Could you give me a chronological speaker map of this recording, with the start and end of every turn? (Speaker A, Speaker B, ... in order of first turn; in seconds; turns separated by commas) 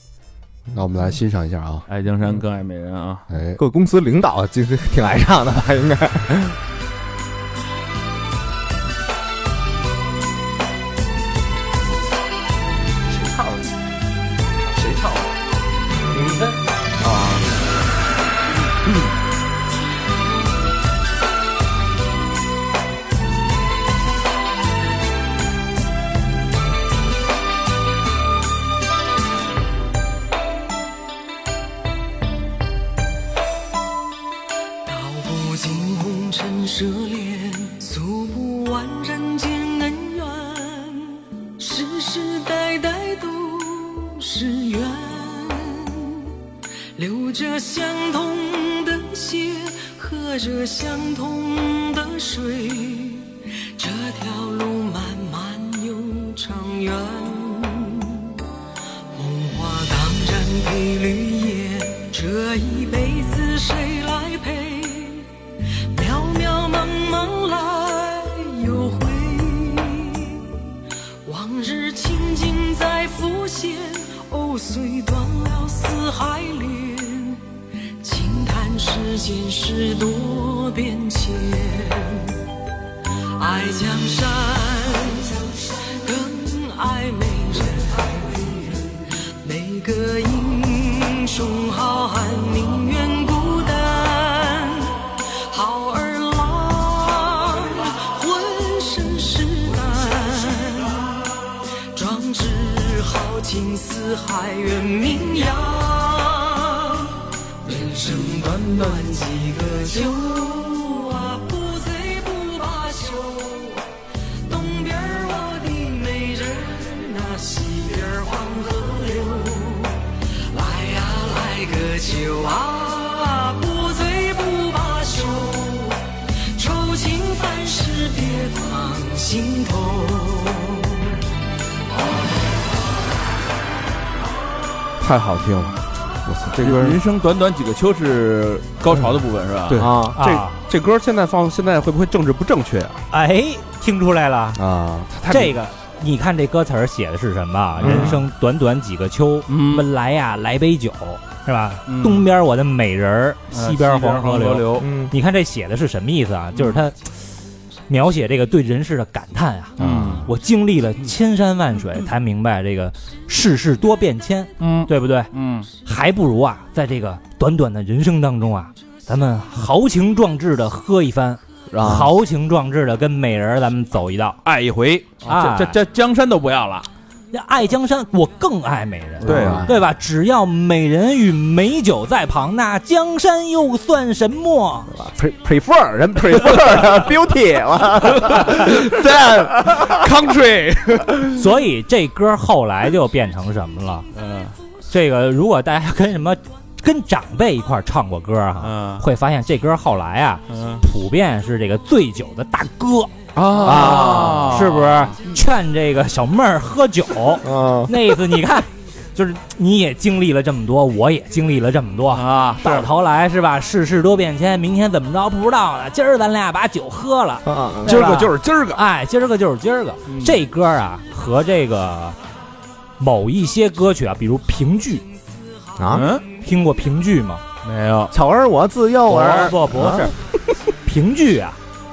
Speaker A: 0.7-1.9, Speaker B: 1.9-3.2, Speaker A: 3.3-3.6, Speaker C: 3.6-6.6, Speaker A: 13.1-13.7, Speaker A: 14.6-15.3, Speaker A: 17.0-17.5, Speaker A: 18.8-19.1, Speaker D: 34.8-46.3, Speaker D: 47.0-58.3, Speaker D: 59.1-65.3, Speaker D: 65.9-70.5, Speaker D: 71.2-77.4, Speaker D: 78.0-82.3, Speaker D: 83.4-101.2, Speaker D: 101.9-113.8, Speaker D: 114.5-131.1, Speaker D: 131.9-132.3, Speaker A: 135.0-137.0, Speaker B: 136.6-139.9, Speaker A: 139.7-143.0, Speaker C: 139.8-140.2, Speaker E: 140.2-140.6, Speaker E: 143.1-144.6, Speaker A: 144.6-145.6, Speaker E: 145.3-157.2, Speaker B: 147.8-148.2, Speaker C: 147.8-148.1, Speaker B: 149.5-149.8, Speaker B: 151.8-152.2, Speaker B: 153.5-154.9, Speaker C: 154.8-155.1, Speaker B: 156.5-156.8, Speaker E: 157.9-165.3, Speaker B: 159.8-160.3, Speaker A: 159.8-160.2, Speaker B: 164.6-165.7, Speaker E: 165.8-174.4, Speaker C: 171.8-172.1, Speaker B: 171.8-172.1, Speaker A: 174.4-175.2, Speaker B: 175.2-176.9, Speaker E: 175.2-175.8, Speaker E: 177.3-184.9, Speaker C: 179.2-179.7, Speaker B: 179.2-179.6, Speaker A: 179.2-179.7, Speaker C: 184.9-190.1, Speaker A: 188.8-191.4, Speaker E: 191.3-194.1, Speaker B: 194.1-194.6, Speaker E: 194.9-203.1, Speaker B: 198.6-199.1, Speaker B: 200.5-200.8, Speaker A: 203.3-204.3, Speaker C: 203.6-204.5, Speaker B: 203.6-205.1, Speaker E: 204.3-222.2, Speaker C: 207.4-207.9, Speaker B: 212.1-212.9, Speaker C: 217.4-218.0, Speaker A: 217.8-218.8, Speaker B: 220.1-220.3, Speaker E: 223.0-225.1, Speaker C: 225.8-226.1, Speaker B: 225.9-226.2, Speaker E: 226.4-227.4, Speaker B: 227.6-228.1, Speaker C: 228.1-230.1, Speaker E: 229.1-230.1, Speaker E: 230.8-231.6